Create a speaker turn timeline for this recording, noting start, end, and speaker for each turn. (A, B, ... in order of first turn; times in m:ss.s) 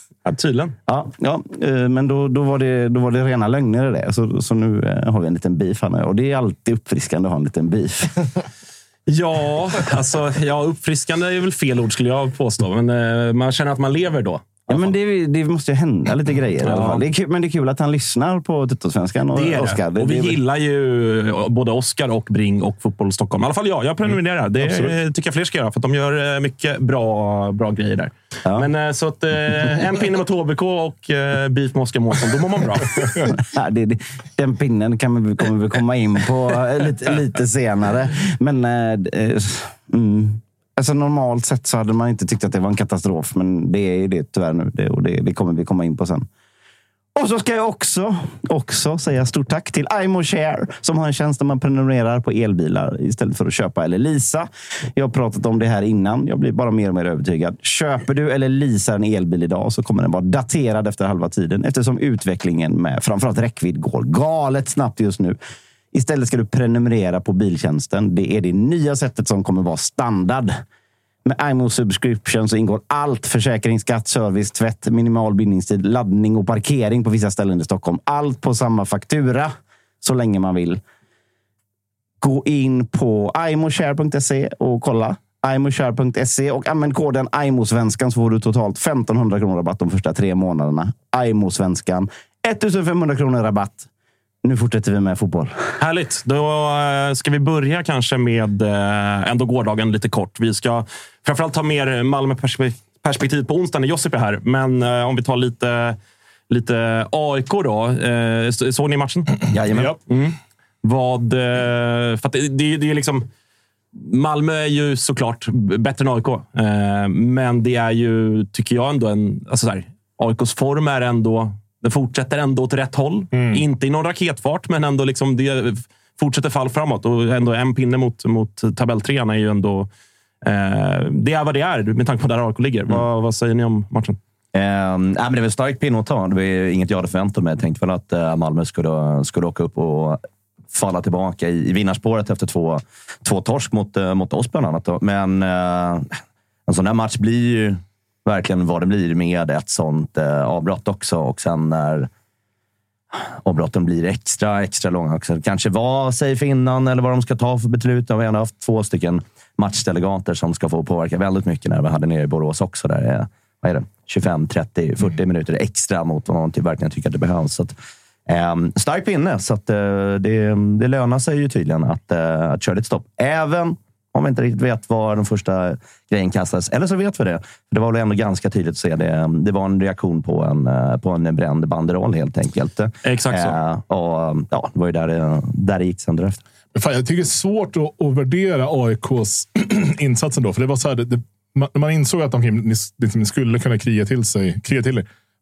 0:00.2-0:00.8 A
0:00.9-0:08.1 B
0:09.1-0:14.9 A
0:14.7-0:20.4 B
0:16.6-0:17.0 A
0:19.3-0:33.0 A
0:24.6-0:25.0 C
0:33.3-0:46.3 B
0:47.2-1:05.4 B
1:05.9-1:10.6 B
1:11.2-1:20.8 B
1:22.2-1:33.9 B
1:34.4-1:35.5 B
1:35.8-1:46.0 A
1:46.5-1:49.4 A
1:49.5-1:49.9 D
1:49.7-1:50.0 C
1:50.1-1:53.3 A
1:54.0-2:09.9 A
2:03.3-2:03.7 C
2:10.4-2:14.2 A
2:14.5-2:20.2 D
2:20.7-2:26.1 D
2:26.7-2:32.1 D
2:33.4-2:47.8 D
2:48.3-3:06.4 D
3:03.0-3:03.6 A
3:06.8-3:15.1 C